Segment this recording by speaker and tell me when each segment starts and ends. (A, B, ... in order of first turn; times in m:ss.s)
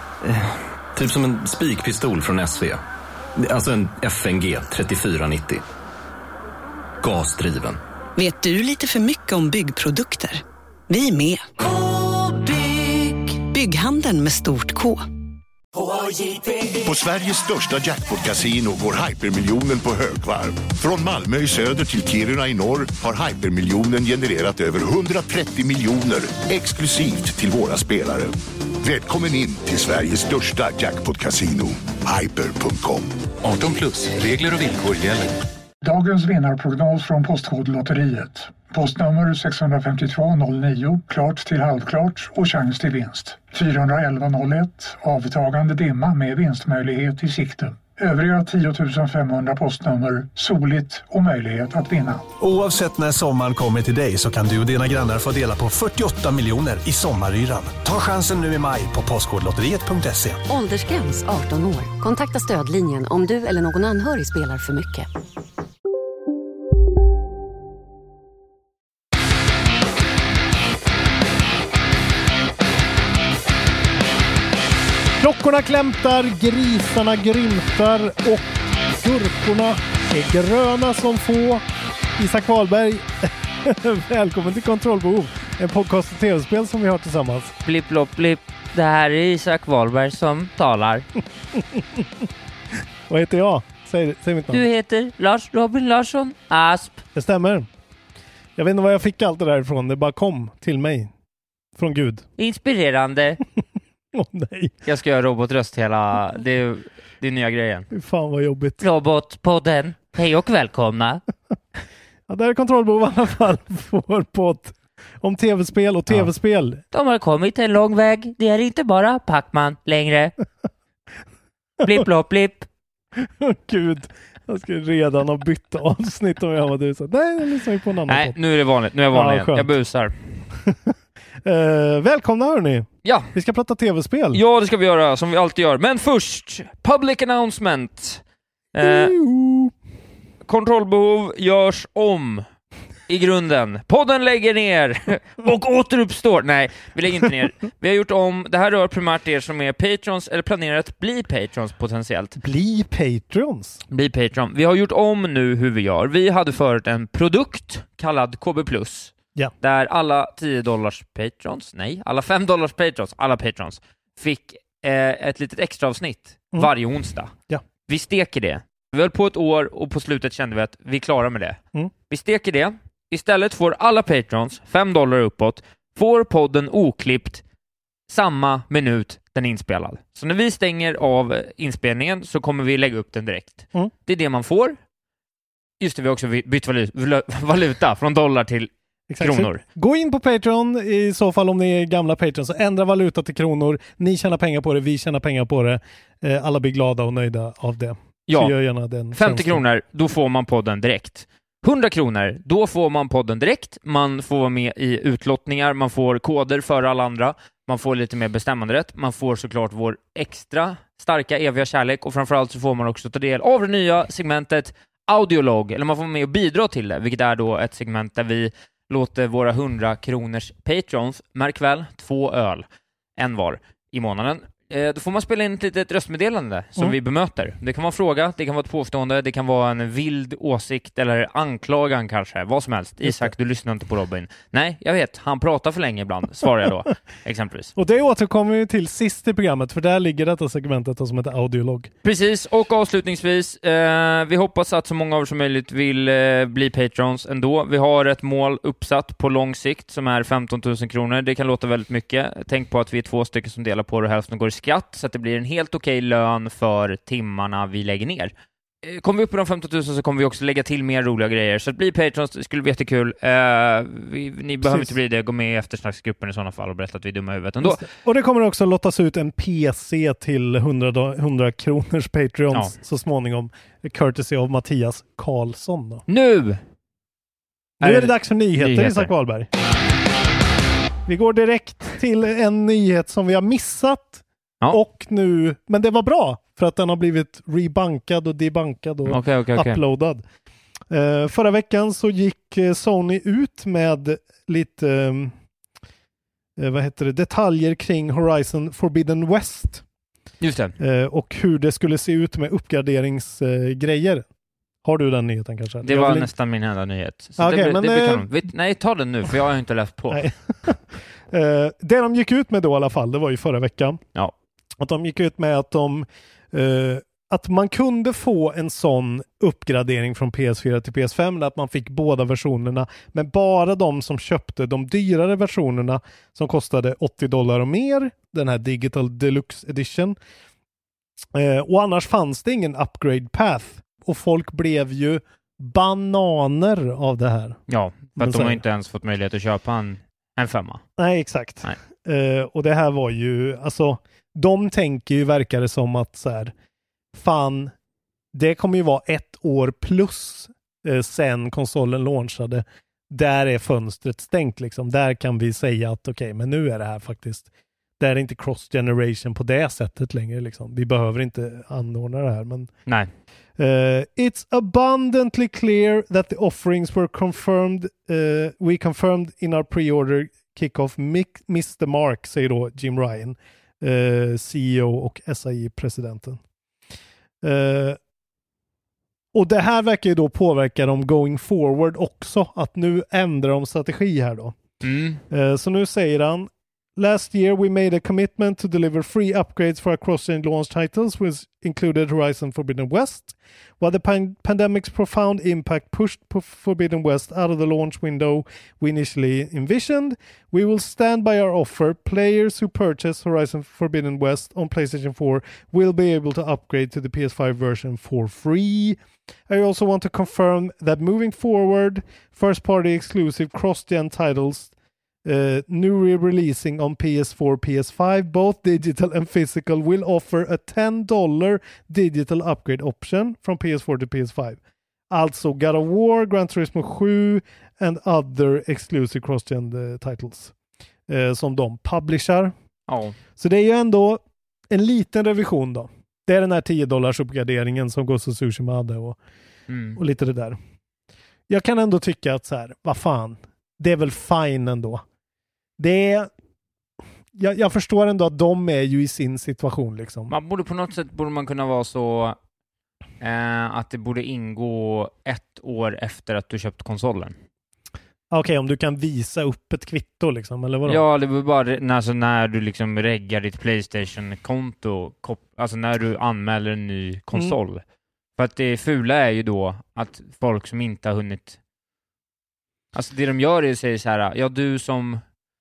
0:00.3-0:02.8 A
0:03.4-0:05.6 A
0:07.0-0:07.8 A
0:08.2-0:15.0 B
0:16.8-0:33.1 C
0:33.4-0:35.4 D
0:35.8-0:52.3 E
0:52.4-1:00.4 F
1:00.5-1:05.1 G
1:15.2-1:21.6 H
1:22.2-1:27.5 H
1:27.6-1:31.0 I
1:31.6-1:32.0 H
1:33.1-1:34.7 H
1:34.5-1:37.0 I
1:37.1-1:37.7 H
1:38.6-1:41.1 H
1:41.8-1:42.3 H
1:42.4-1:43.4 I
1:44.1-1:44.8 H
1:44.8-1:47.9 I
1:47.9-1:48.8 H
1:48.8-1:51.2 I
1:52.3-1:56.8 H
1:56.9-2:00.3 I
2:01.8-2:02.7 I
2:03.2-2:08.4 H
2:08.1-2:10.4 I
2:09.1-2:09.7 H
2:11.4-2:14.4 H
2:13.0-2:13.3 I
2:14.3-2:18.2 I
2:18.7-2:19.2 I
2:18.8-2:19.7 H
2:20.4-2:22.5 I
2:23.1-2:32.4 I
2:32.4-2:33.8 H
2:33.9-2:47.3 I
2:47.9-2:57.4 I
2:58.1-3:04.8 I
3:05.8-3:09.6 I
3:09.1-3:19.6 H
3:18.3-3:18.5 I
3:19.1-3:42.6 I
3:43.2-3:57.7 I
3:53.0-3:53.3 H
3:57.8-4:01.9 H
4:02.0-4:18.3 I
4:18.8-4:27.9 I
4:24.6-4:24.9 H
4:27.6-4:36.0 H
4:36.1-4:36.6 I
4:37.8-4:39.5 H
4:37.8-4:39.1 I
4:41.1-4:50.2 H
4:49.1-4:49.8 I
4:50.9-4:55.3 H
4:56.6-4:59.8 H
5:00.4-5:00.8 I
5:00.8-5:04.3 H
5:04.8-5:06.3 H
5:05.8-5:10.3 I
5:07.4-5:08.3 H
5:10.1-5:14.0 H
5:14.8-5:30.2 H
5:31.3-5:37.6 H
5:37.7-5:40.8 I
5:38.2-5:38.6 H
5:41.0-5:46.5 H
5:47.1-5:47.7 H
5:48.3-5:57.5 H
5:58.0-6:02.7 H
6:03.6-6:16.4 H
6:17.4-6:18.0 H
6:19.3-6:24.6 H
6:24.8-6:25.2 I
6:25.3-6:54.7 H
6:55.2-7:04.6 H
7:05.1-7:10.5 H
7:11.1-7:12.5 H
7:12.9-7:13.2 I
7:13.4-7:19.2 H
7:19.7-7:20.0 I
7:20.0-7:20.6 H
7:21.5-7:25.0 H
7:25.8-7:26.3 H
7:27.4-7:30.3 H
7:30.3-7:32.4 I
7:33.2-7:37.4 I
7:38.3-7:41.0 H
7:40.9-7:47.8 I
7:48.4-7:51.6 I
7:52.9-7:55.2 I